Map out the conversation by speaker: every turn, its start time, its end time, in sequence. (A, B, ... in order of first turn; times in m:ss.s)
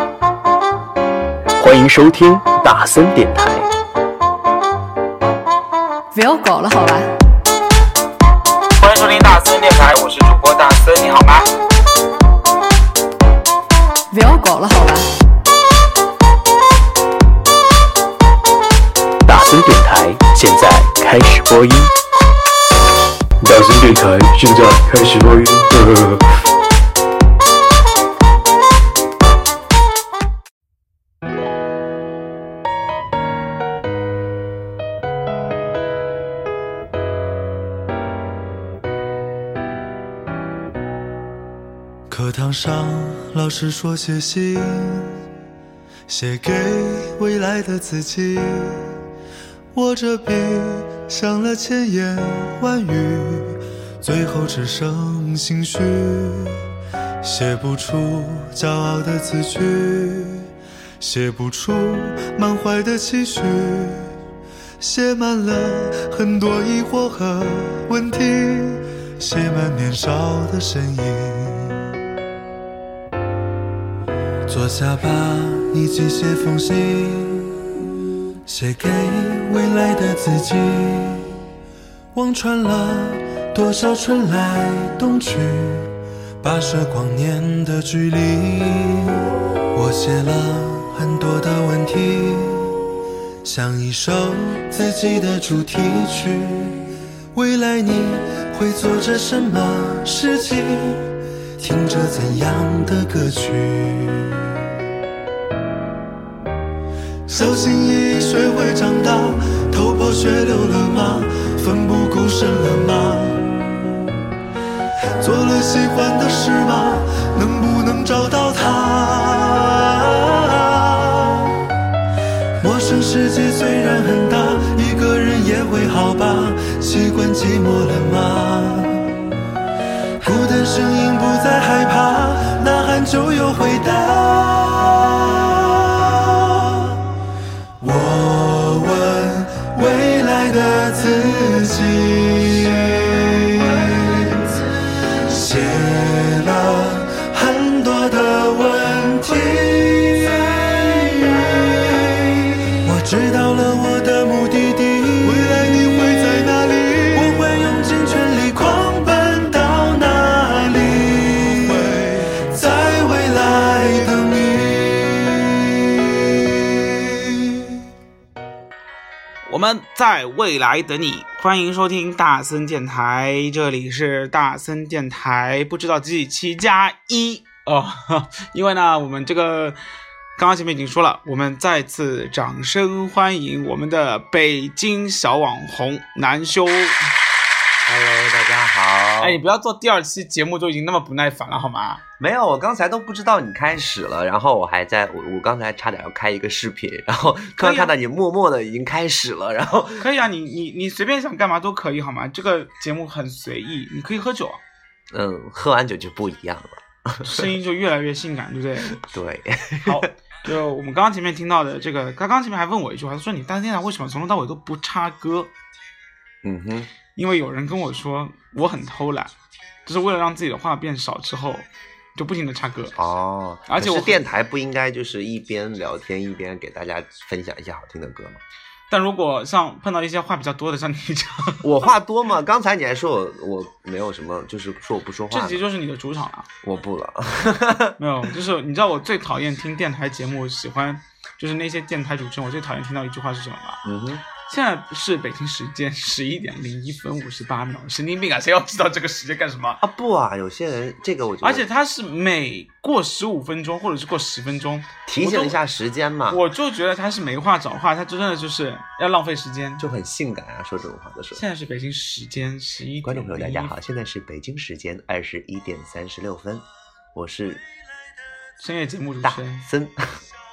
0:01.6-0:03.7 A
0:06.1-0:07.2 B
0:08.8-0:11.5 C
0:14.1-0:15.1 B
0:19.3-0:21.9 A
0:23.4-0:26.3 A
0:42.1-0:45.2 D
0:46.1-0:49.0 D
0:49.7-0:56.6 D
0:57.2-1:04.1 D
1:04.8-1:11.9 D
1:14.5-1:17.8 D
1:18.5-1:21.4 D
1:22.1-1:32.8 D
1:33.4-1:44.6 D
1:47.3-1:53.6 D
1:55.2-2:01.6 D
2:02.6-2:09.2 D
2:10.2-2:17.1 D
2:17.8-2:47.8 D
2:49.5-2:59.8 C
3:00.4-3:07.1 C
3:07.8-3:09.4 E
3:09.2-3:12.0 C
3:12.2-3:20.1 E
3:17.5-3:17.9 C
3:20.0-3:24.6 C
3:25.1-3:27.4 E
3:27.2-3:29.0 C
3:29.0-3:30.1 E
3:29.8-3:35.5 C
3:36.4-3:36.9 E
3:37.2-3:39.3 C
3:39.9-3:43.0 C
3:43.0-3:48.4 E
3:43.7-3:44.2 C
3:48.9-3:51.9 C
3:51.6-3:55.6 E
3:55.3-3:56.5 C
3:56.6-3:58.0 E
3:58.0-4:03.8 C
4:03.8-4:04.2 E
4:04.4-4:09.8 C
4:09.8-4:11.6 E
4:11.4-4:15.6 C
4:15.1-4:16.4 E
4:16.3-4:19.9 C
4:19.8-4:21.4 E
4:21.4-4:23.7 C
4:23.0-4:27.6 E
4:28.6-4:29.6 C
4:29.2-4:30.2 E